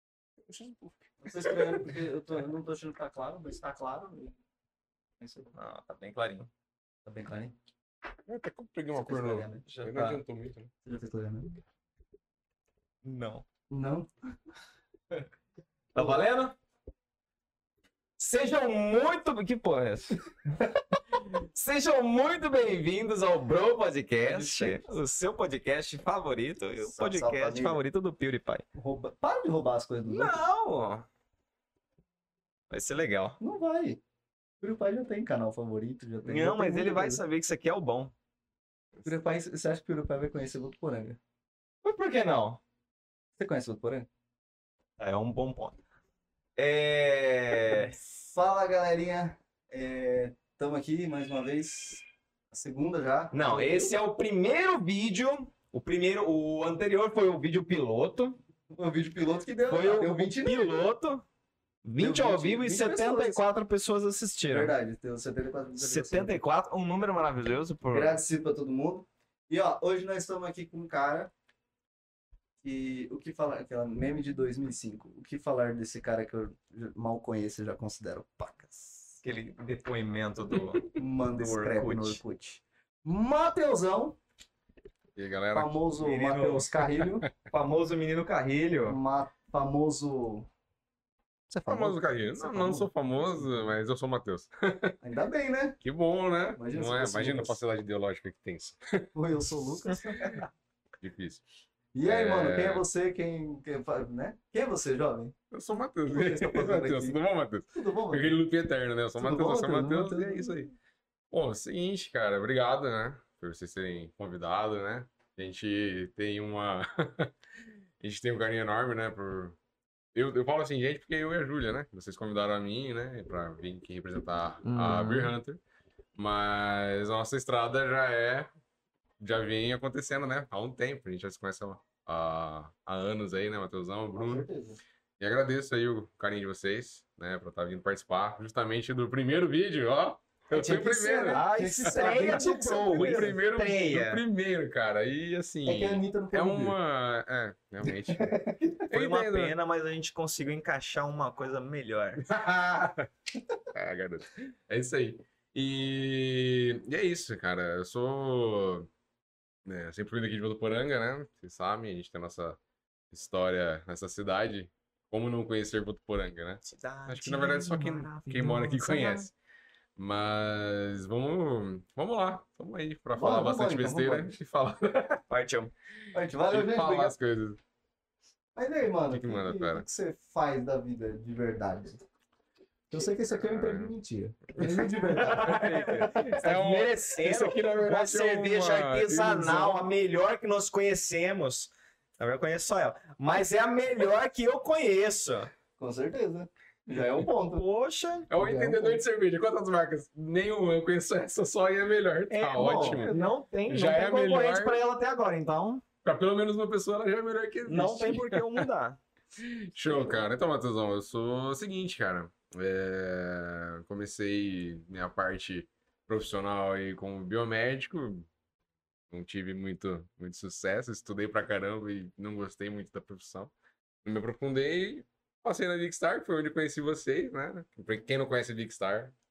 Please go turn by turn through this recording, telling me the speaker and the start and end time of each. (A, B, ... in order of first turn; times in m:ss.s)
0:00.5-0:00.8 A
0:01.2-0:04.3 B
0:01.5-0:01.9 C
0:05.2-0:05.5 B
0:05.5-0:06.5 C
0:07.0-0:07.5 B
0:08.3-0:10.7 A
0:08.9-0:09.6 B
0:09.6-0:10.2 C
0:10.8-0:11.5 B
0:13.0-0:13.4 C
0:13.7-0:14.1 B
0:15.9-0:16.6 C
0:18.2-0:20.2 C
0:20.9-0:28.6 C
0:24.2-0:24.9 B
0:26.8-0:27.8 B
0:28.8-0:30.4 B
0:30.0-0:31.1 C
0:32.7-0:33.4 C
0:33.4-0:34.0 B
0:34.6-0:37.2 B
0:36.2-0:38.1 C
0:39.0-0:41.2 B
0:41.8-0:42.6 C
0:43.4-0:44.1 B
0:45.0-0:45.8 C
0:46.6-0:47.9 C
0:47.7-0:53.9 B
0:53.3-0:58.4 C
0:58.7-1:00.9 B
0:59.7-1:01.2 C
1:01.8-1:04.7 C
1:02.0-1:03.4 B
1:04.5-1:06.4 B
1:05.8-1:08.2 C
1:07.9-1:11.3 B
1:12.6-1:19.2 B
1:19.2-1:22.2 C
1:21.0-1:24.2 B
1:25.2-1:25.9 A
1:25.5-1:27.3 B
1:26.0-1:26.8 C
1:27.4-1:29.0 C
1:28.9-1:30.5 B
1:31.5-1:32.9 B
1:31.7-1:35.0 A
1:35.0-1:35.8 B
1:35.8-1:39.1 A
1:36.5-1:37.6 B
1:39.1-1:40.4 B
1:41.0-1:41.4 A
1:41.9-1:45.3 B
1:42.0-1:42.8 A
1:45.5-1:50.7 A
1:46.1-1:47.2 B
1:47.7-1:48.4 B
1:49.2-1:50.5 B
1:51.3-1:57.3 A
1:58.0-1:59.6 A
2:00.1-2:05.6 A
2:04.6-2:05.4 C
2:06.2-2:08.5 A
2:09.2-2:14.4 A
2:14.1-2:14.8 B
2:15.2-2:28.3 A
2:20.5-2:23.4 B
2:21.2-2:24.2 C
2:25.6-2:26.8 B
2:27.8-2:28.8 B
2:28.8-2:29.5 A
2:28.9-2:32.2 C
2:32.2-2:33.1 A
2:33.7-2:38.9 A
2:39.6-2:42.6 A
2:43.1-2:49.3 A
2:46.6-2:49.3 C
2:50.0-2:55.2 A
2:53.1-2:54.3 B
2:55.3-2:55.7 C
2:56.1-2:57.1 B
2:56.5-2:57.6 A
2:58.6-3:02.0 B
2:59.1-2:59.8 A
3:02.9-3:06.4 B
3:03.3-3:03.9 A
3:05.0-3:15.5 C
3:05.4-3:09.8 A
3:15.8-3:17.6 B
3:17.5-3:18.3 C
3:18.3-3:24.8 A
3:18.3-3:19.0 B
3:22.3-3:25.8 C
3:22.5-3:23.1 B
3:26.0-3:28.7 A
3:27.7-3:29.0 C
3:29.4-3:38.3 A
3:29.9-3:30.2 B
3:39.1-3:43.5 A
3:44.0-3:49.1 A